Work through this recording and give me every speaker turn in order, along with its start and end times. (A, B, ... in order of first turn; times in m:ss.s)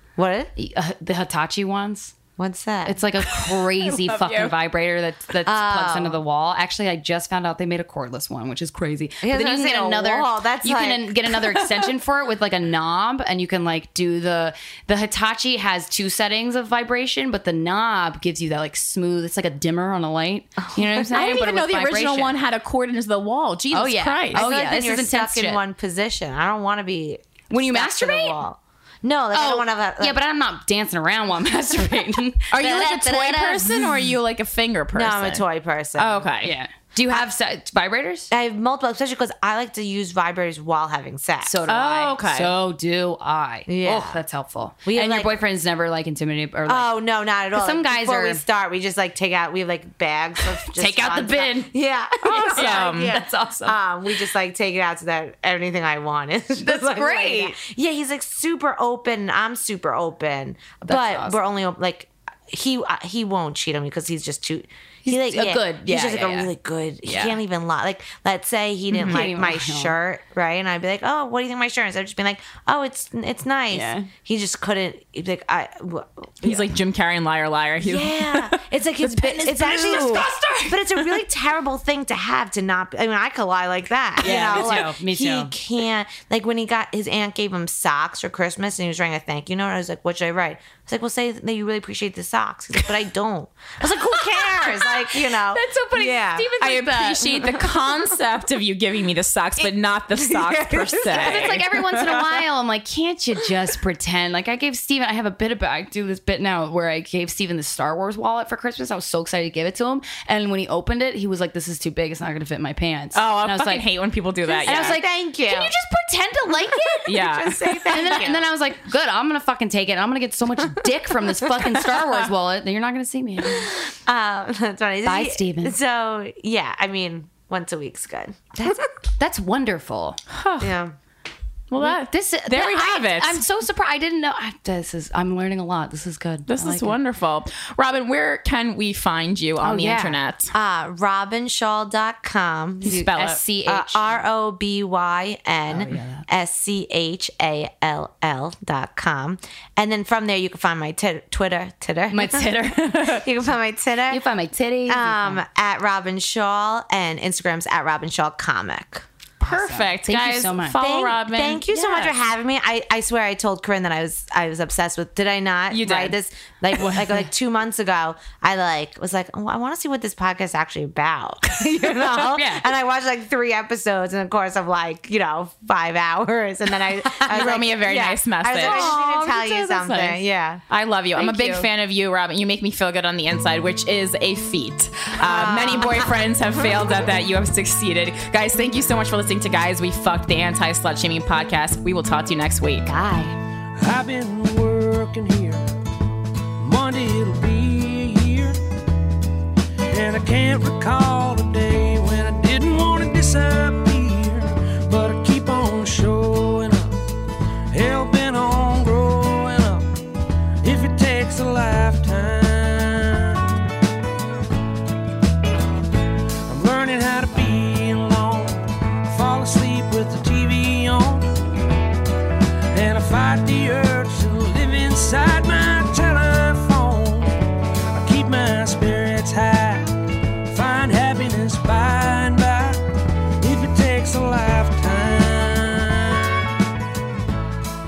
0:00.2-0:00.5 A
0:00.6-0:02.2 B
0:02.4-0:03.0 A
0:02.8-0:22.4 B
0:03.3-0:04.5 C
0:05.4-0:06.2 A
0:09.2-0:11.7 A
0:20.7-0:21.1 A
0:21.1-0:24.5 C
0:23.7-0:25.6 B
0:24.3-0:30.2 A
0:27.5-0:28.4 B
0:29.3-0:34.0 B
0:32.5-0:35.4 C
0:34.9-0:36.3 A
0:36.0-0:36.5 C
0:36.4-0:38.3 B
0:38.3-0:41.6 A
0:41.4-0:46.9 B
0:41.6-0:42.5 C
0:43.7-0:44.2 A
0:44.8-0:45.4 A
0:46.6-1:16.7 A
0:47.5-0:48.4 B
0:50.6-0:51.7 B
0:52.2-0:53.8 B
0:52.3-0:53.2 C
0:56.6-0:57.6 B
1:00.8-1:01.4 B
1:05.0-1:06.5 B
1:07.0-1:07.4 B
1:08.9-1:09.9 B
1:13.7-1:14.1 B
1:16.4-1:20.3 C
1:17.8-1:36.6 A
1:19.4-1:21.2 B
1:24.2-1:25.5 B
1:24.2-1:24.9 C
1:34.1-1:37.6 B
1:36.6-1:42.4 C
1:39.6-1:42.2 A
1:41.1-1:53.9 B
1:53.1-1:55.0 C
1:54.6-1:55.7 A
1:54.6-1:57.2 B
1:56.8-1:58.5 A
1:57.0-1:57.6 C
1:57.8-2:03.7 B
2:01.3-2:01.8 A
2:03.5-2:08.9 A
2:05.0-2:05.8 B
2:08.6-2:10.2 B
2:10.3-2:10.8 C
2:10.6-2:10.9 A
2:11.7-2:13.4 C
2:11.8-2:17.0 B
2:16.5-2:20.5 C
2:19.6-2:20.2 B
2:20.5-2:23.1 A
2:22.8-2:24.2 B
2:22.9-2:23.4 C
2:23.6-2:34.2 A
2:25.7-2:26.2 B
2:32.1-2:33.3 B
2:34.1-2:35.4 B
2:34.9-2:39.0 A
2:39.4-2:40.8 B
2:39.4-2:41.7 C
2:40.8-3:00.6 A
2:41.7-2:42.1 B
2:45.7-2:46.2 B
2:46.7-2:47.3 B
2:51.8-2:52.7 B
2:57.1-2:57.4 B
2:57.2-2:58.9 C
2:58.5-3:00.2 B
3:00.7-3:12.9 C
3:01.1-3:01.7 B
3:05.2-3:06.1 A
3:12.8-3:13.4 B
3:13.8-3:15.6 D
3:16.6-3:18.6 D
3:19.9-3:26.9 D
3:27.7-3:29.8 D
3:30.6-3:33.5 D
3:36.4-3:41.3 D
3:42.7-3:47.3 D
3:47.9-3:49.9 D
3:50.5-3:52.8 D
3:53.4-3:56.4 D